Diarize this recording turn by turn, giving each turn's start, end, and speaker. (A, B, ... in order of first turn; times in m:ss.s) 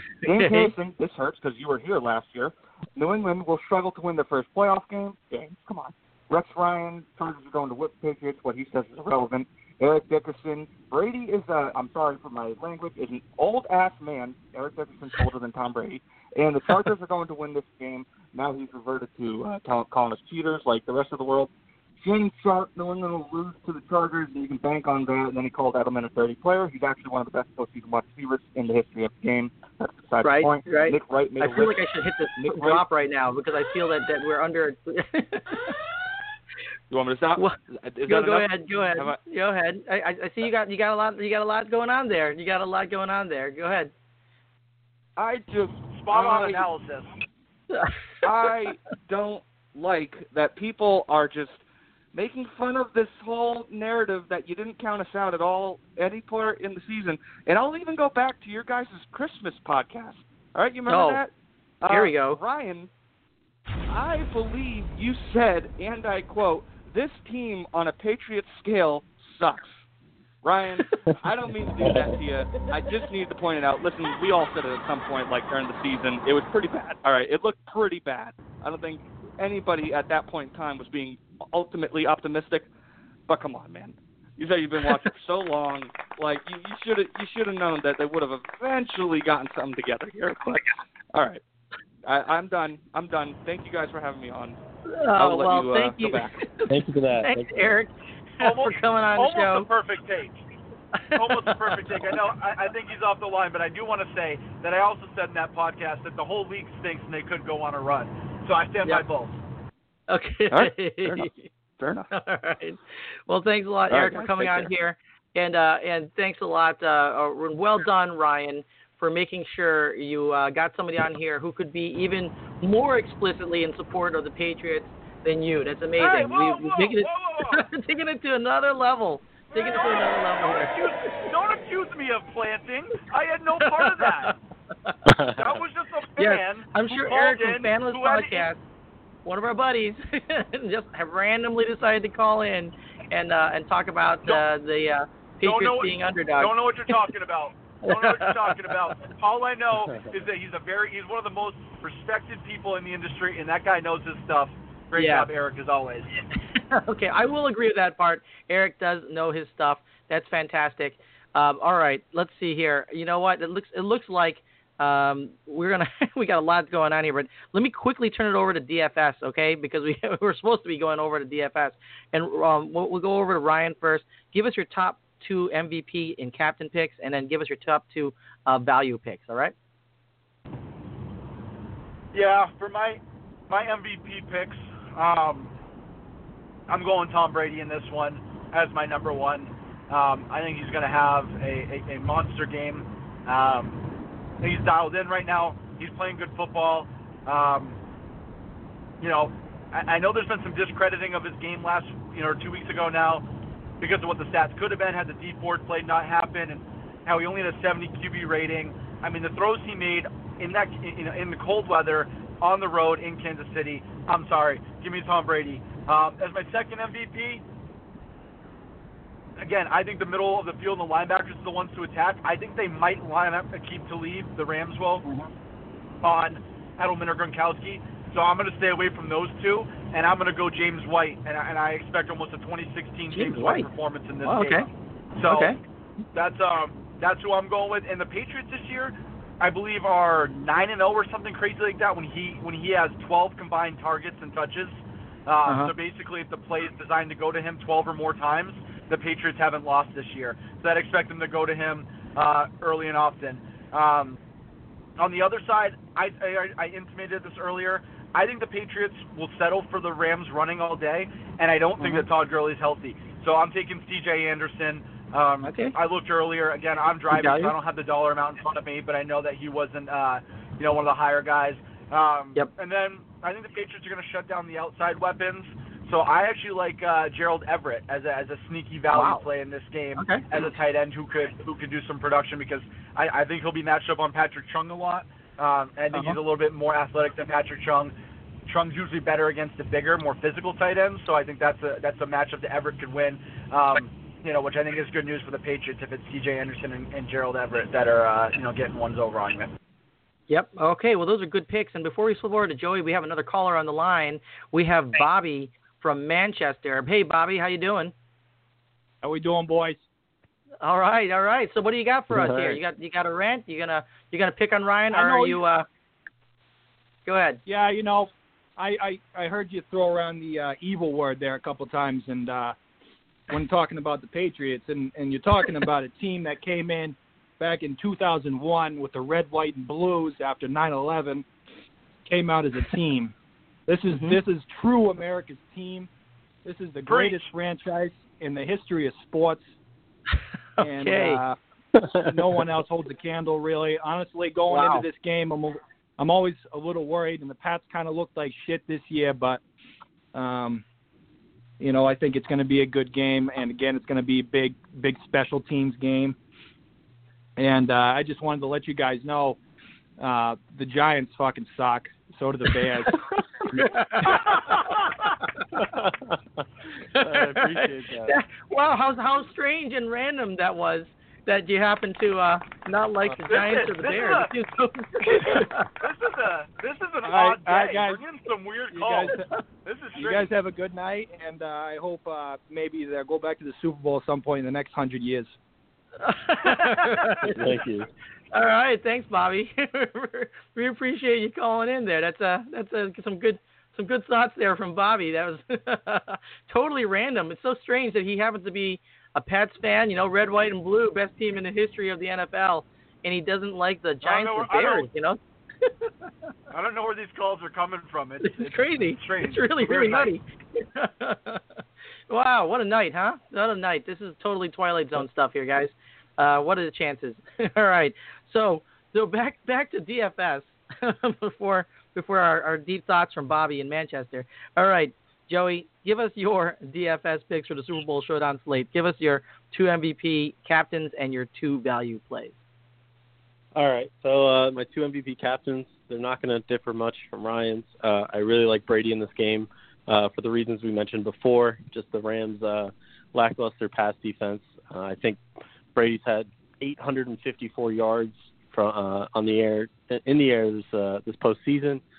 0:00.2-0:31.8 A
0:00.3-0:00.7 B
0:30.2-0:35.8 B
0:32.4-0:32.8 A
0:36.9-0:37.4 C
0:37.9-0:39.1 C
0:38.1-0:43.9 B
0:45.2-0:46.6 C
0:45.9-0:47.1 D
0:48.2-1:02.9 C
1:00.9-1:01.2 B
1:01.9-1:02.4 B
1:03.9-1:09.8 C
1:10.4-1:22.7 C
1:23.3-1:31.4 C
1:32.0-1:34.6 C
1:34.9-1:36.6 B
1:35.2-1:36.4 C
1:36.7-1:37.7 E
1:37.2-1:39.7 B
1:38.4-1:40.4 D
1:41.0-1:41.8 B
1:41.1-1:49.4 D
1:50.1-1:51.4 B
1:50.5-1:52.1 C
1:52.1-2:10.9 B
1:53.9-1:54.7 C
2:06.0-2:07.7 D
2:09.5-2:14.4 D
2:13.6-2:14.3 B
2:15.1-2:15.4 E
2:15.3-2:18.5 D
2:16.2-2:18.6 B
2:19.2-2:26.5 B
2:25.4-2:36.1 D
2:27.8-2:28.9 B
2:35.0-2:35.3 B
2:36.7-2:59.5 B
3:02.1-3:05.5 D
3:06.7-3:13.8 D
3:14.4-3:17.8 D
3:19.0-3:23.2 D
3:23.8-3:37.4 D
3:39.4-3:45.0 D
3:46.0-3:55.6 D
3:53.1-3:53.7 B
3:54.2-3:54.6 B
3:55.3-3:55.6 B
3:56.1-4:14.2 D
4:05.4-4:05.7 B
4:15.0-4:47.9 D
4:25.4-4:25.7 B
4:27.1-4:27.5 B
4:38.9-4:39.2 B
4:40.0-4:40.3 B
4:48.5-4:59.5 D
5:00.3-5:07.9 B
5:09.0-5:09.8 F
5:10.6-5:15.6 B
5:12.1-5:12.6 E
5:14.9-5:15.4 F
5:17.0-5:17.4 B
5:17.4-5:22.6 F
5:23.3-5:31.2 F
5:32.0-5:33.1 F
5:33.7-5:35.9 F
5:33.9-5:34.2 B
5:36.4-5:39.5 F
5:36.9-5:37.3 D
5:40.6-5:49.4 F
5:40.6-5:41.2 B
5:44.5-5:44.9 B
5:50.1-5:50.6 F
5:51.6-5:56.2 F
5:57.4-5:59.4 F
6:00.0-6:04.0 F
6:03.5-6:04.8 B
6:05.5-6:06.4 E
6:06.9-6:15.7 B
6:06.9-6:08.2 E
6:13.3-6:14.3 D
6:15.0-6:20.3 D
6:17.0-6:18.0 F
6:18.7-6:19.4 F
6:19.9-6:25.4 F
6:26.0-6:27.5 B
6:27.2-6:27.9 E
6:28.3-6:45.9 B
6:44.0-6:44.9 D
6:46.5-6:50.1 D
6:48.2-6:51.4 B
6:52.1-7:12.4 B
7:13.5-7:25.2 E
7:25.7-7:31.8 E